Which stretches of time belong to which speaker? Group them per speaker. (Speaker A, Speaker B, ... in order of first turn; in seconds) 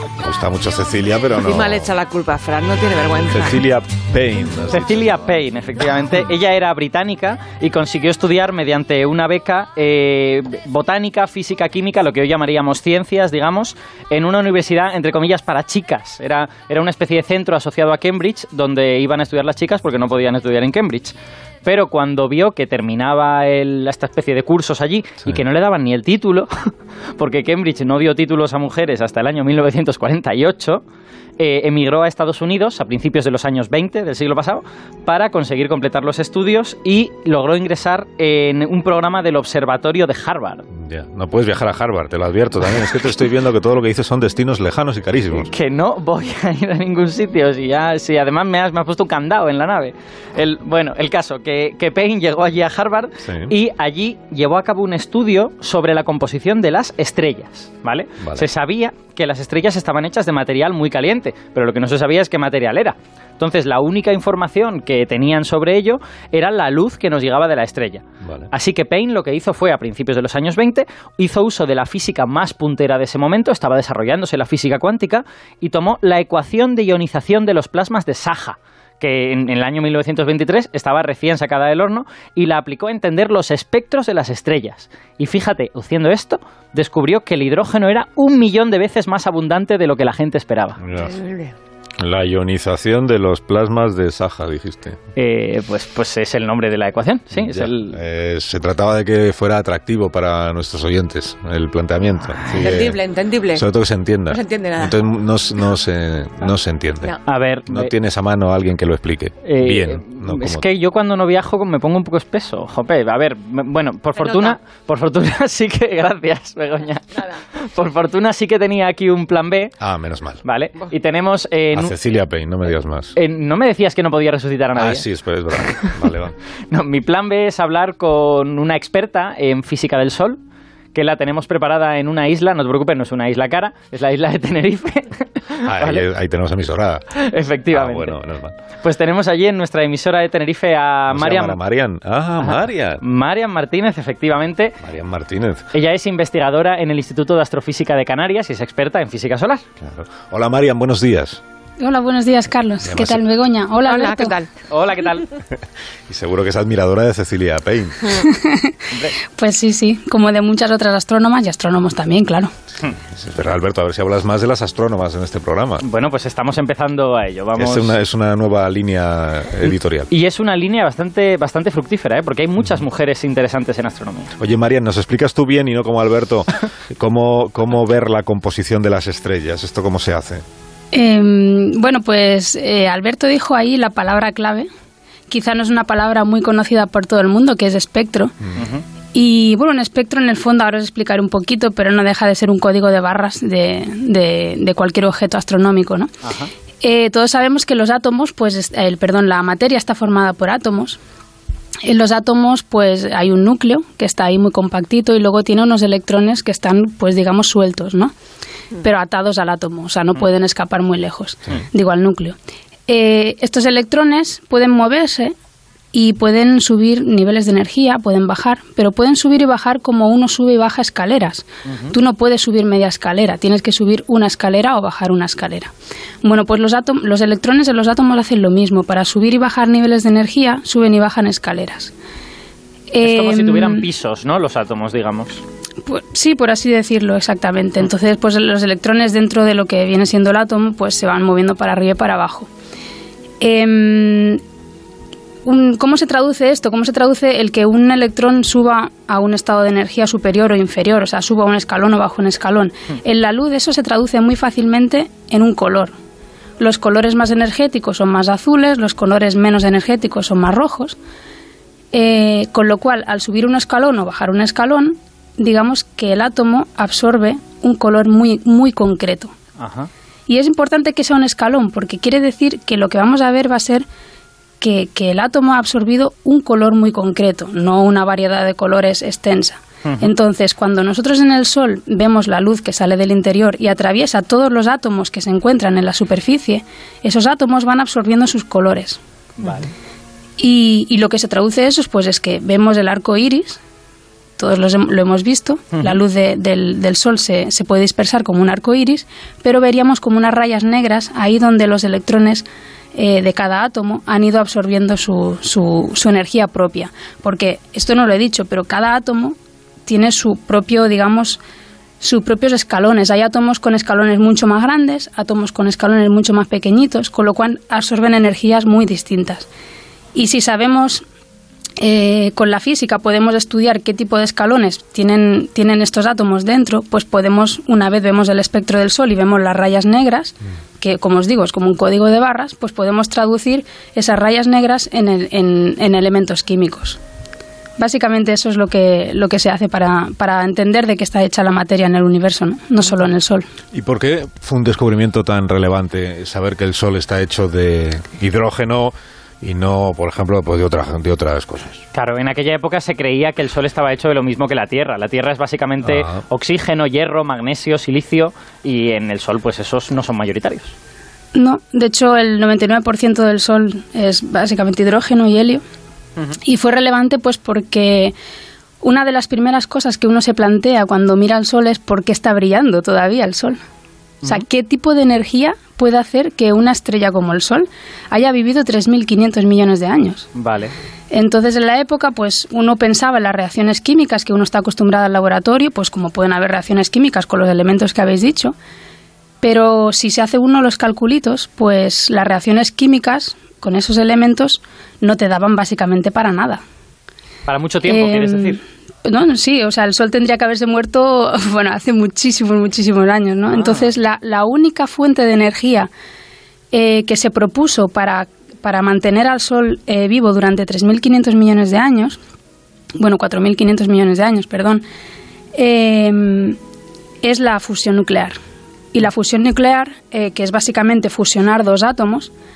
Speaker A: 0.2-1.9, 3.3-5.4, 40.8-45.5, 53.2-53.5, 58.2-58.5, 68.2-68.5, 90.8-91.2, 92.0-95.0, 97.3-103.0, 103.5-110.7, 119.8-120.4, 121.7-123.2, 124.8-126.4, 135.7-138.6, 141.1-143.0, 144.8-145.7, 149.8-151.4, 152.8-153.2, 156.1-158.2, 163.1-165.8, 167.6-170.1, 174.4-180.4, 343.7-351.8, 355.8-356.2
Speaker B: 1.3-3.6, 91.0-91.5, 102.6-103.7, 104.3-105.0, 114.2-114.6, 153.8-154.5
Speaker C: 4.7-30.8, 31.4-40.6, 45.4-90.8, 95.2-98.0, 102.4-102.7, 107.3-107.9, 109.4-119.8, 120.4-121.9, 123.2-125.1, 125.8-126.1, 126.7-130.4, 130.9-136.1, 137.2-138.2, 138.8-141.6, 142.4-144.8, 145.7-149.6, 154.7-155.3, 158.9-159.2, 165.8-168.0, 170.1-174.3, 188.6-188.8, 196.2-196.5, 221.7-221.9, 233.0-235.4, 269.6-269.9, 279.9-280.1, 289.4-289.7, 351.9-360.7, 380.3-380.8, 397.5-398.6, 403.5-403.9
Speaker D: 151.8-154.4, 158.2-158.8, 159.4-162.5, 180.9-184.7, 185.3-188.4, 189.1-196.1, 196.8-201.0, 201.8-208.1, 208.8-212.3, 212.9-215.3, 215.9-231.9, 232.9-233.9, 235.8-242.5, 243.4-244.4, 245.4-255.9, 256.6-261.0, 261.9-269.3, 270.3-273.9, 274.6-289.0, 290.4-293.6, 294.4-311.4, 312.0-319.5, 320.1-321.0, 321.8-337.0, 337.8-343.5, 361.3-365.6, 366.3-368.1, 368.8-373.6, 374.2-380.3, 381.1-388.5, 389.4-396.6, 397.8-405.9, 406.7-412.2, 413.0-414.8, 415.6-416.6, 417.2-418.3, 418.9-422.3